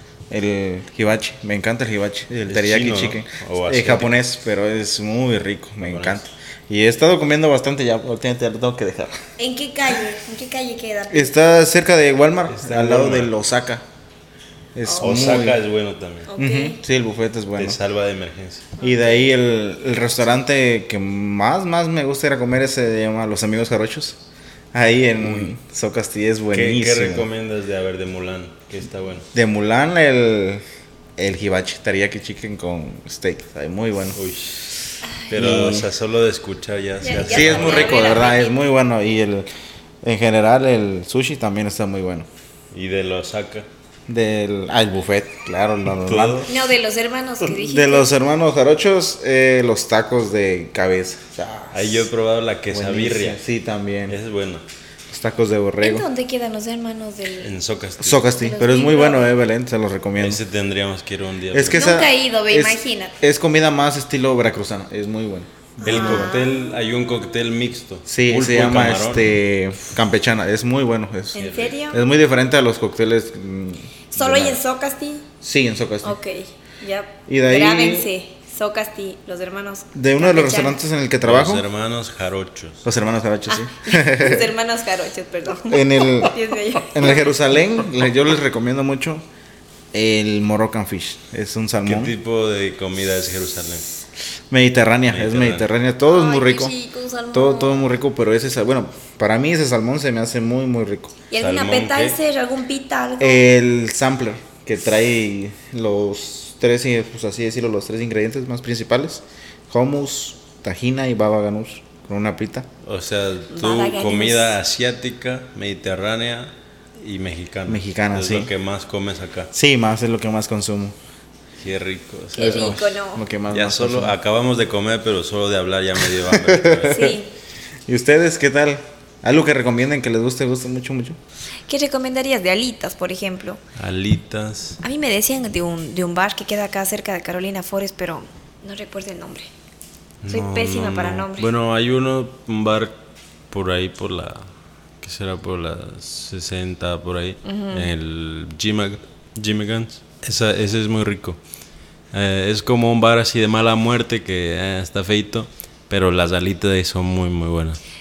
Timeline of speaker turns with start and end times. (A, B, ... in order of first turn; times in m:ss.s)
0:00.3-0:09.2 A
0:02.4-0:04.1 B
0:05.8-0:06.2 B
0:09.4-0:11.4 C
0:11.1-0:13.8 A
0:12.5-0:13.3 B
0:14.7-0:15.6 A
0:14.9-0:15.4 C
0:15.0-0:16.3 B
0:16.3-0:16.8 C
0:16.4-0:17.8 A
0:17.6-0:18.7 B
0:18.8-0:24.2 A
0:24.7-0:27.3 A
0:25.2-0:25.5 B
0:26.5-0:29.3 B
0:29.3-0:30.6 A
0:31.2-0:34.2 A
0:34.2-0:38.0 B
0:35.3-0:35.9 A
0:37.0-0:38.6 C
0:37.2-0:39.5 A
0:40.0-0:42.3 A
0:42.7-0:43.7 B
0:44.1-0:46.5 A
0:46.0-0:46.5 B
0:46.4-0:48.1 C
0:47.5-0:52.1 A
0:51.7-0:53.4 B
0:52.7-0:54.2 A
0:54.1-0:54.6 B
0:55.1-0:56.1 A
0:55.8-0:57.6 C
0:57.4-0:58.3 B
0:58.0-1:00.4 A
0:58.4-0:59.3 C
1:00.2-1:01.9 B
1:01.5-1:06.3 A
1:01.7-1:03.1 C
1:05.8-1:09.3 B
1:05.8-1:06.5 C
1:08.1-1:14.6 A
1:11.4-1:12.0 C
1:11.4-1:11.8 B
1:14.1-1:15.3 C
1:15.4-1:16.2 A
1:16.0-1:20.8 C
1:17.3-1:18.1 A
1:19.9-1:21.6 A
1:21.2-1:22.9 B
1:22.8-1:24.5 A
1:23.5-1:27.3 C
1:25.6-1:29.2 A
1:29.9-1:32.1 A
1:31.8-1:33.8 B
1:34.5-1:36.7 A
1:35.1-1:35.7 B
1:36.0-1:37.9 C
1:37.3-1:41.2 A
1:41.3-1:43.4 C
1:41.4-1:42.2 B
1:43.2-1:52.7 A
1:52.8-1:59.5 B
1:53.5-1:54.6 C
1:57.7-1:58.5 A
1:59.5-2:01.0 A
2:01.6-2:02.8 B
2:02.3-2:03.2 C
2:02.4-2:04.1 A
2:03.5-2:07.2 B
2:06.2-2:06.9 A
2:06.9-2:07.3 C
2:07.9-2:11.2 A
2:11.7-2:13.6 C
2:13.8-2:14.8 B
2:14.8-2:19.5 C
2:20.2-2:23.0 B
2:20.3-2:21.5 C
2:23.5-2:24.5 B
2:25.0-2:31.4 B
2:27.4-2:27.9 C
2:32.1-2:37.8 B